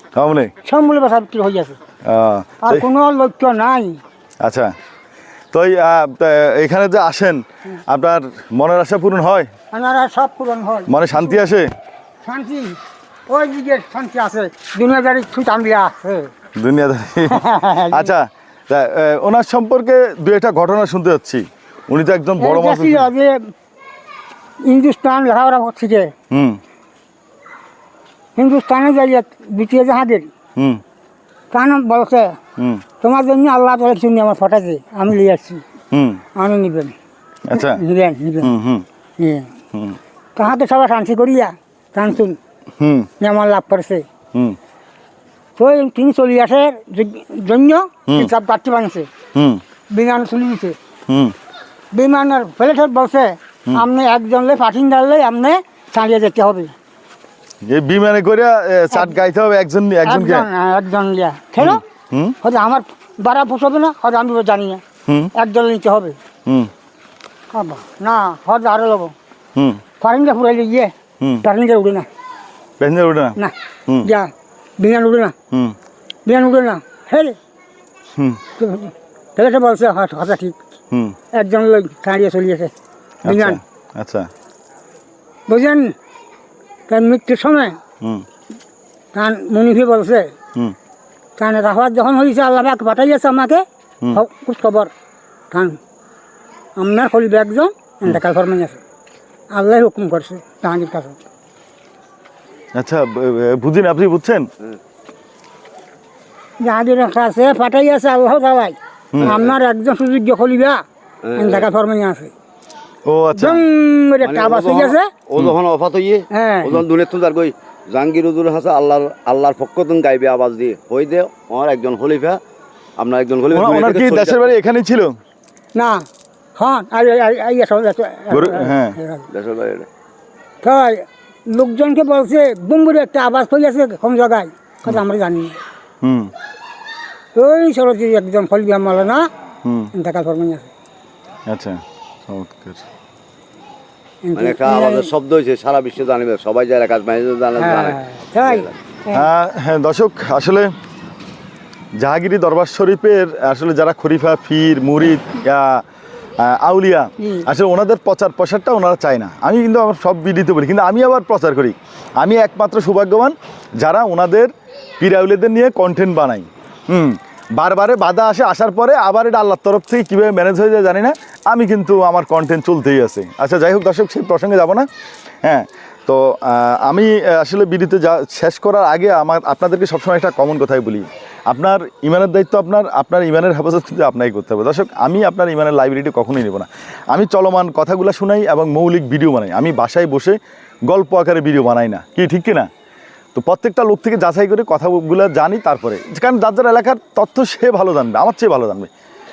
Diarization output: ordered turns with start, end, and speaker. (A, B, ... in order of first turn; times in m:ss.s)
0:00.2-0:00.5 A
0:00.6-0:01.8 B
0:02.0-0:02.9 A
0:02.6-0:04.0 B
0:04.4-0:04.7 A
0:05.5-0:09.5 A
0:09.7-0:11.4 B
0:10.9-0:11.7 A
0:12.2-0:16.3 B
0:16.6-0:23.1 A
0:17.3-0:18.1 B
0:22.4-0:23.5 B
0:24.7-0:26.1 B
0:26.3-0:26.6 A
0:28.4-0:30.3 B
0:31.5-0:32.3 B
0:32.6-0:32.8 A
0:33.0-0:35.6 B
0:35.9-0:36.2 A
0:36.4-0:37.0 B
0:37.5-0:37.8 A
0:37.5-0:38.5 B
0:38.4-0:38.9 A
0:39.2-0:39.5 B
0:39.7-0:40.0 A
0:40.4-0:42.4 B
0:42.8-0:43.1 A
0:43.2-0:44.0 B
0:45.6-0:49.1 B
0:49.4-0:49.6 A
0:49.9-0:50.8 B
0:51.1-0:51.4 A
0:51.9-0:56.7 B
0:57.6-1:00.5 A
1:00.0-1:01.8 B
1:01.6-1:02.4 A
1:02.4-1:04.8 B
1:05.4-1:06.2 B
1:07.5-1:09.1 B
1:09.6-1:09.8 A
1:10.0-1:12.1 B
1:12.8-1:14.1 A
1:14.0-1:15.3 B
1:16.3-1:17.4 B
1:18.6-1:20.6 B
1:20.9-1:21.2 A
1:21.3-1:22.7 B
1:23.2-1:24.3 A
1:23.3-1:23.6 B
1:25.5-1:25.9 B
1:26.9-1:27.8 B
1:29.1-1:30.3 B
1:31.4-1:34.9 B
1:35.5-1:35.8 B
1:36.8-1:38.8 B
1:39.5-1:41.2 B
1:42.8-1:44.5 A
1:46.6-1:50.8 B
1:49.1-1:49.4 A
1:49.2-1:49.5 C
1:51.2-1:51.7 C
1:51.4-1:52.3 B
1:53.1-1:53.6 A
1:53.4-1:55.1 B
1:54.2-2:02.4 C
1:56.3-1:56.8 B
2:03.0-2:04.5 C
2:03.5-2:05.1 A
2:05.8-2:06.0 B
2:06.6-2:09.2 B
2:08.3-2:09.0 A
2:09.3-2:09.9 C
2:10.6-2:15.6 B
2:16.0-2:16.3 A
2:17.4-2:19.3 B
2:19.6-2:19.9 A
2:20.0-2:20.7 B
2:21.5-2:22.8 A
2:24.2-2:25.1 B
2:24.4-2:28.8 C
2:27.6-2:29.3 B
2:29.1-2:30.7 A
2:32.0-2:35.8 A
2:36.4-2:54.9 A
2:37.2-2:37.4 B
2:55.4-3:12.7 A
3:13.4-3:18.9 A